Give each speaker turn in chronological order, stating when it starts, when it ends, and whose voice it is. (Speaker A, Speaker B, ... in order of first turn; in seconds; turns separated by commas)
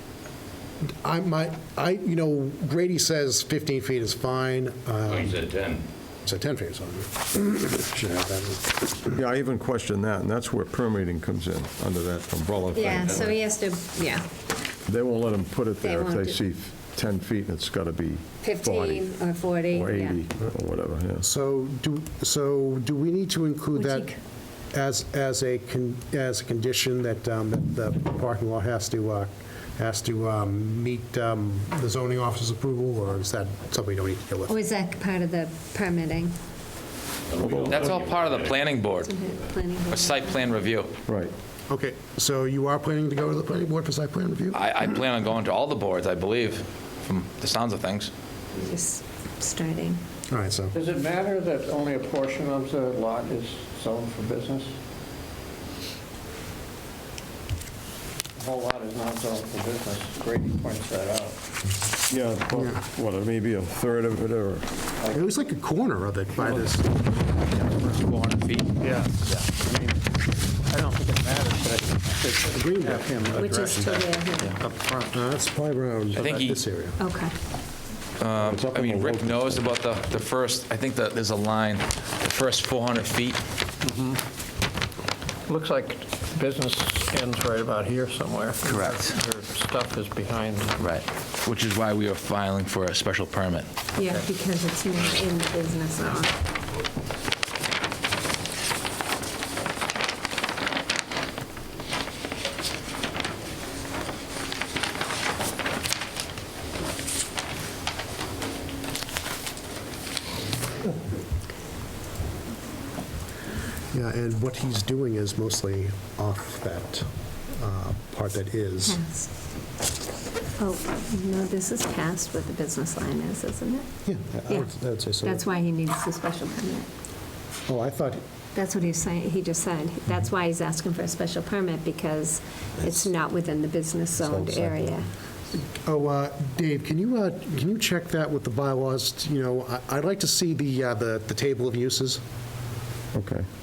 Speaker A: 1.0-5.4, Speaker B: 5.0-5.8, Speaker A: 6.2-9.1, Speaker C: 9.1-13.4, Speaker D: 12.7-14.2, Speaker B: 13.0-13.3, Speaker C: 14.8-21.2, Speaker D: 15.8-16.4, Speaker D: 18.4-20.2, Speaker A: 21.2-24.1, Speaker D: 23.7-24.2, Speaker A: 24.7-34.5, Speaker D: 34.5-36.3, Speaker B: 37.3-38.6, Speaker C: 37.4-37.7, Speaker E: 37.7-39.1, Speaker D: 39.0-40.6, Speaker E: 39.9-40.9, Speaker C: 41.1-41.3, Speaker A: 41.7-44.8, Speaker E: 44.5-48.1, Speaker D: 48.5-50.0, Speaker A: 50.3-50.7, Speaker F: 50.7-54.7, Speaker F: 58.4-61.4, Speaker C: 62.1-64.7, Speaker A: 65.1-66.9, Speaker E: 67.5-68.7, Speaker F: 68.8-70.0, Speaker F: 70.7-75.2, Speaker A: 72.4-74.0, Speaker D: 73.3-74.6, Speaker A: 74.6-77.0, Speaker F: 76.1-76.5, Speaker E: 76.1-76.6, Speaker D: 77.0-77.3, Speaker E: 78.2-83.4, Speaker C: 78.4-79.5, Speaker F: 83.8-84.2, Speaker F: 85.5-90.9, Speaker E: 88.6-89.2, Speaker E: 90.8-93.7, Speaker D: 94.0-96.3, Speaker A: 113.9-119.0, Speaker D: 118.8-119.3, Speaker D: 120.6-123.8, Speaker A: 124.0-125.4, Speaker D: 125.2-126.9, Speaker A: 127.7-128.2, Speaker D: 128.5-135.1, Speaker A: 134.2-135.0, Speaker A: 135.8-142.2, Speaker C: 143.1-143.4